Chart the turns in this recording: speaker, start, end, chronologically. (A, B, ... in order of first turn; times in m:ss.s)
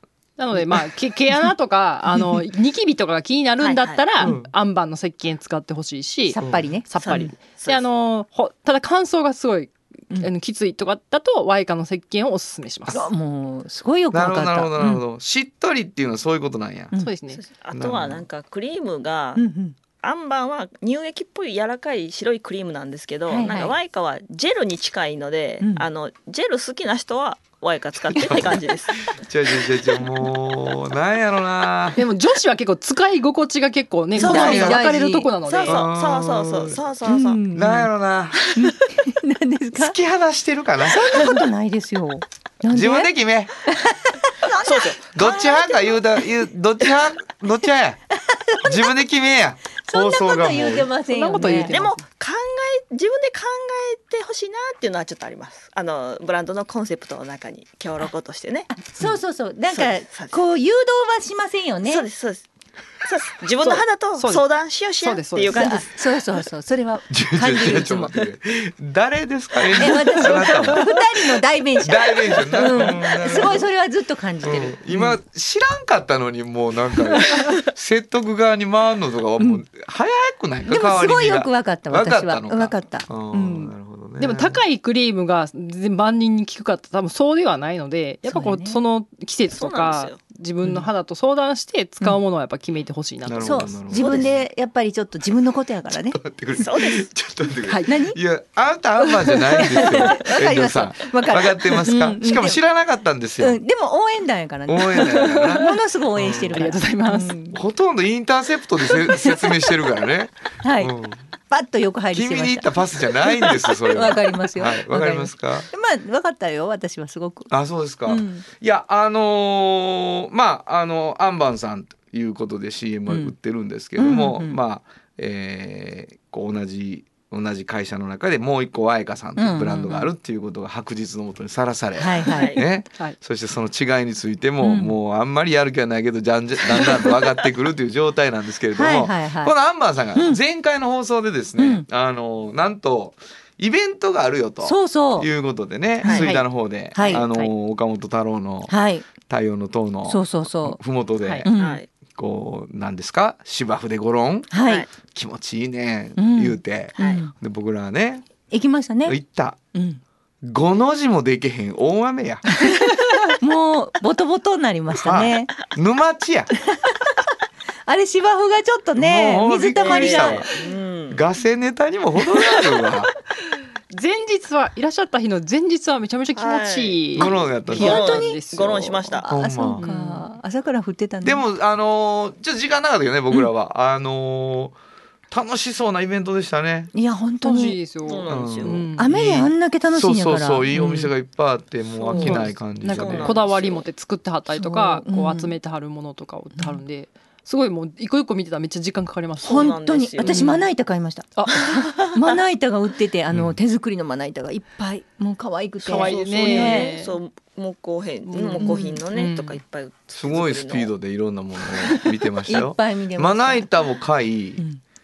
0:00.4-0:13.1 A
0:03.6-0:04.1 B
0:04.2-0:04.5 C
0:06.3-0:07.3 D
0:06.4-0:06.7 C
0:07.0-0:07.8 B
0:12.9-0:15.0 D
0:14.1-0:16.9 C
0:17.0-0:17.4 A
0:17.3-0:19.4 B
0:17.7-0:18.2 C
0:19.4-0:19.8 D
0:20.0-0:29.7 B
0:23.3-0:23.8 D
0:25.6-0:25.9 D
0:28.0-0:32.0 C
0:32.0-0:35.9 A
0:34.2-0:35.3 D
0:34.2-0:34.8 C
0:34.2-0:34.6 B
0:35.5-0:37.4 B
0:35.6-0:36.8 C
0:37.0-0:37.9 D
0:37.5-0:38.7 C
0:38.5-0:40.0 D
0:39.7-0:41.2 C
0:40.9-0:43.1 D
0:42.7-0:43.5 C
0:43.7-0:45.0 D
0:44.6-0:46.0 B
0:45.1-0:48.0 C
0:48.3-0:48.8 D
0:48.6-0:50.9 C
0:49.8-0:51.9 D
0:51.1-0:52.0 A
0:51.7-0:58.8 B
0:58.8-1:02.1 D
0:59.7-1:00.4 B
1:01.8-1:02.5 B
1:03.0-1:05.9 B
1:03.6-1:04.5 A
1:05.0-1:05.8 A
1:05.5-1:08.2 D
1:07.1-1:11.0 C
1:09.8-1:14.8 D
1:11.8-1:13.7 C
1:14.4-1:24.6 C
1:20.7-1:23.7 D
1:24.2-1:33.6 A
1:28.2-1:28.8 D
1:29.5-1:30.2 B
1:30.6-1:30.9 D
1:33.2-1:34.3 C
1:33.4-1:36.2 D
1:34.0-1:34.3 B
1:36.1-1:43.6 C
1:36.6-1:37.1 B
1:37.7-1:38.2 D
1:39.5-1:42.6 D
1:43.4-1:47.6 D
1:44.7-1:46.6 C
1:45.3-1:45.6 A
1:46.5-1:47.4 A
1:47.5-1:51.2 C
1:50.6-1:51.0 D
1:51.5-1:52.7 D
1:52.1-1:55.7 C
1:53.2-1:57.5 D
1:57.5-2:31.5 C
1:58.1-1:58.4 D
2:03.1-2:03.3 D
2:04.0-2:04.6 D
2:09.4-2:10.1 D
2:12.0-2:12.6 D
2:12.3-2:12.6 B
2:14.6-2:15.0 D
2:18.8-2:19.5 D
2:20.2-2:20.4 D
2:21.6-2:21.8 D
2:24.6-2:25.3 D
2:26.1-2:26.4 A
2:27.0-2:27.3 D
2:27.1-2:27.5 A
2:28.7-2:29.1 D
2:30.1-2:30.8 D
2:31.4-2:31.8 D
2:31.5-2:31.9 B
2:32.2-2:38.3 C
2:34.5-2:34.9 D
2:34.6-2:34.9 B
2:36.2-2:37.3 D
2:38.5-2:39.2 D
2:39.1-2:39.6 C
2:39.7-2:40.0 D
2:40.4-2:42.4 C
2:42.6-2:45.5 D
2:44.9-2:46.5 C
2:46.7-2:47.2 D
2:47.9-2:50.5 D
2:49.0-2:50.5 C
2:49.8-2:51.2 B
2:51.1-2:53.1 C
2:53.9-2:59.2 A
2:56.4-2:59.3 B
2:57.2-2:58.0 C
2:57.3-2:58.4 D
2:59.2-3:01.4 D
2:59.3-2:59.8 C
2:59.8-3:00.3 A
3:01.2-3:04.8 C
3:05.3-3:06.9 C
3:06.9-3:07.8 D
3:07.4-3:09.5 A
3:08.1-3:08.9 B
3:08.3-3:08.8 C
3:09.0-3:11.1 D
3:09.9-3:13.4 C
3:12.0-3:13.9 B
3:12.1-3:20.6 A
3:14.5-3:15.5 D
3:16.6-3:16.8 D
3:19.4-3:20.5 B
3:19.4-3:27.0 D
3:21.4-3:21.8 A
3:23.3-3:23.6 C
3:25.8-3:27.2 A
3:25.9-3:30.9 B
3:28.2-3:29.6 A
3:28.6-3:29.0 D
3:30.2-3:34.6 C
3:32.5-3:33.7 D